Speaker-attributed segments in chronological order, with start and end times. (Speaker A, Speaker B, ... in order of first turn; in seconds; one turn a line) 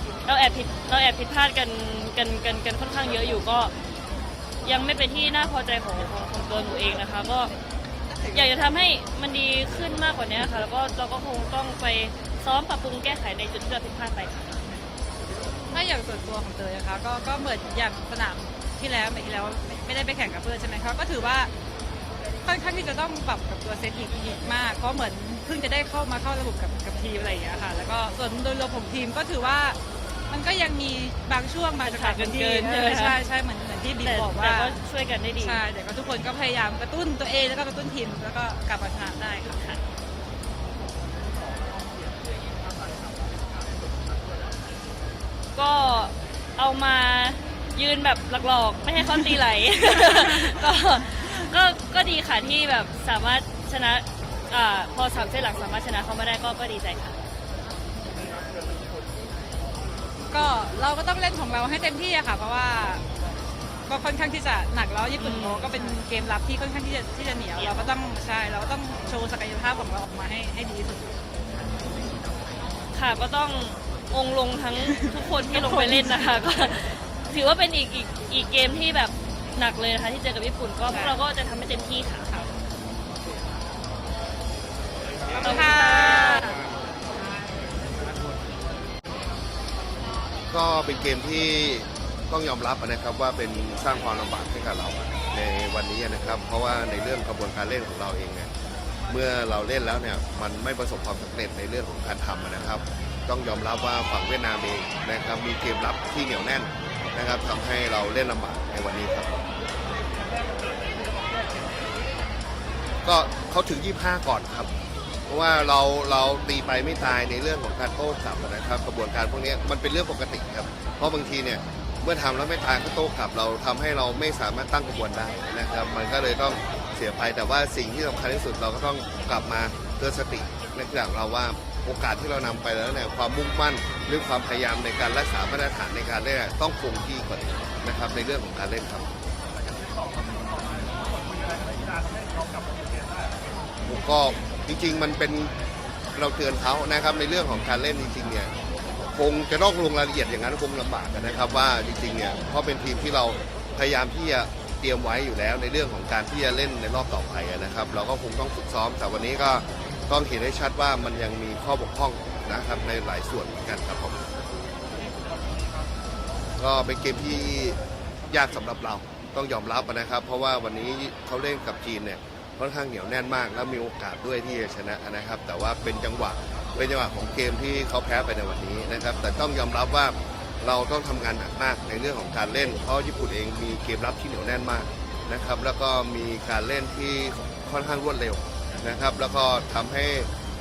Speaker A: 0.2-3.7
Speaker A: 4.6-7.5
Speaker A: 8.3-14.6
Speaker B: 15.7-21.5
Speaker B: 22.4-29.8
Speaker B: 30.3-34.8
Speaker A: 31.8-33.2
Speaker A: 34.0-35.6
Speaker B: 35.4-39.6
Speaker A: 39.5-39.8
Speaker A: 45.5-57.2
Speaker B: 60.3-63.0
Speaker B: 63.9-71.2
Speaker A: 65.2-65.7
Speaker A: 67.6-67.9
Speaker A: 72.9-82.4
Speaker B: 75.5-76.2
Speaker B: 85.3-86.6
Speaker A: 85.4-86.5
Speaker C: 90.5-98.5
Speaker C: 99.1-109.3
Speaker C: 113.0-114.7
Speaker C: 115.3-139.1
Speaker C: 143.8-145.5
Speaker C: 146.1-148.5
Speaker C: 149.1-164.2
Speaker C: 166.6-167.8
Speaker C: 168.3-190.3